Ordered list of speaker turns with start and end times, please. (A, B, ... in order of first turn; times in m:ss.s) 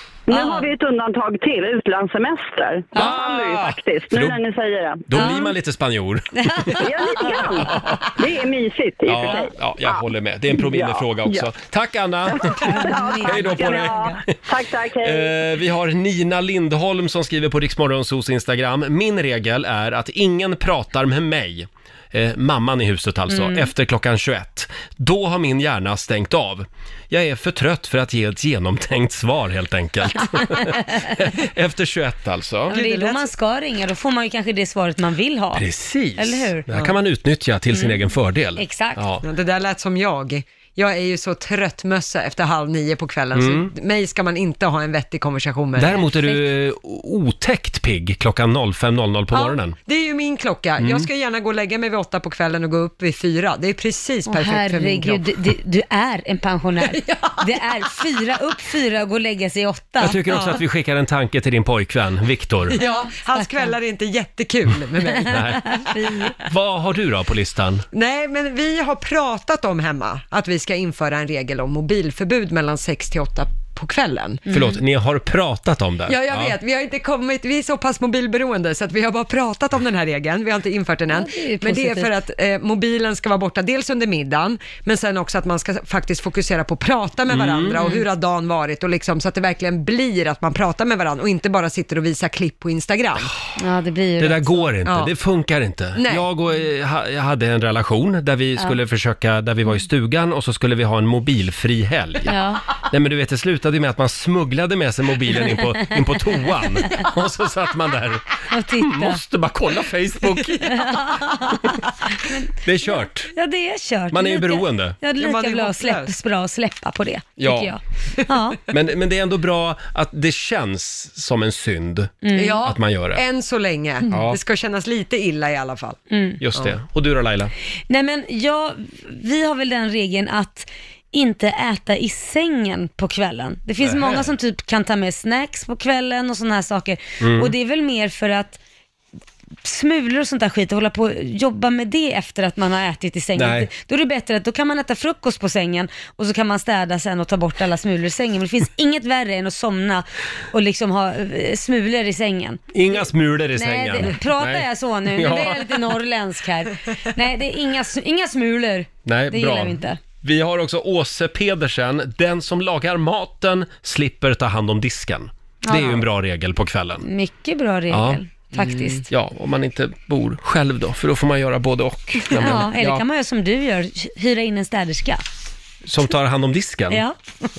0:00.3-0:05.1 A
0:00.3-0:00.7 B
0:02.9-0:04.4 C
0:05.1-0:08.1 C
0:05.1-0:05.5 B
0:06.4-0:07.4 B
0:06.8-0:10.0 A
0:09.0-0:14.4 C
0:10.7-0:11.4 A
0:12.5-0:14.2 B
0:12.8-0:15.4 A
0:15.0-0:32.8 C
0:23.3-0:23.7 B
0:30.4-0:30.8 B
0:32.7-0:35.6 B
0:32.7-0:33.3 D
0:35.5-0:39.2 C
0:36.2-0:36.7 B
0:37.7-0:38.0 B
0:38.6-0:39.0 B
0:39.2-0:46.0 D
0:43.3-0:43.7 C
0:45.8-0:49.7 C
0:46.1-0:46.4 B
0:49.3-0:55.2 D
0:50.8-0:51.1 C
0:54.2-1:00.6 B
0:56.8-0:57.6 D
1:00.0-1:02.8 C
1:02.8-1:05.4 D
1:03.3-1:03.6 B
1:05.2-1:05.8 C
1:05.6-1:06.3 B
1:06.4-1:07.8 C
1:07.9-1:14.4 D
1:14.5-1:14.8 B
1:14.5-1:16.5 C
1:16.1-1:33.3 D
1:21.1-1:22.1 B
1:27.3-1:27.8 C
1:33.6-1:34.7 B
1:34.2-1:42.4 C
1:34.8-1:35.1 D
1:36.0-1:36.3 D
1:42.3-1:42.6 B
1:42.9-1:50.8 C
1:48.5-1:49.2 B
1:50.7-1:58.6 B
1:52.6-1:53.3 C
1:54.1-1:55.0 C
1:55.2-1:56.1 D
1:57.4-1:57.7 C
1:58.7-2:03.2 C
2:02.2-2:02.7 B
2:02.3-2:06.0 D
2:04.1-2:04.4 C
2:06.1-2:06.4 B
2:06.4-2:07.5 C
2:07.9-2:18.6 B
2:13.8-2:14.3 C
2:17.2-2:17.5 C
2:19.6-2:32.8 B
2:23.4-2:23.7 C
2:32.7-2:35.9 C
2:33.5-2:40.0 B
2:39.0-2:47.1 C
2:45.6-2:46.0 B
2:47.0-2:49.0 B
2:47.9-2:48.2 C
2:48.5-2:49.0 D
2:49.1-2:53.0 C
2:52.3-2:55.2 B
2:55.8-2:57.0 C
2:56.9-2:57.2 B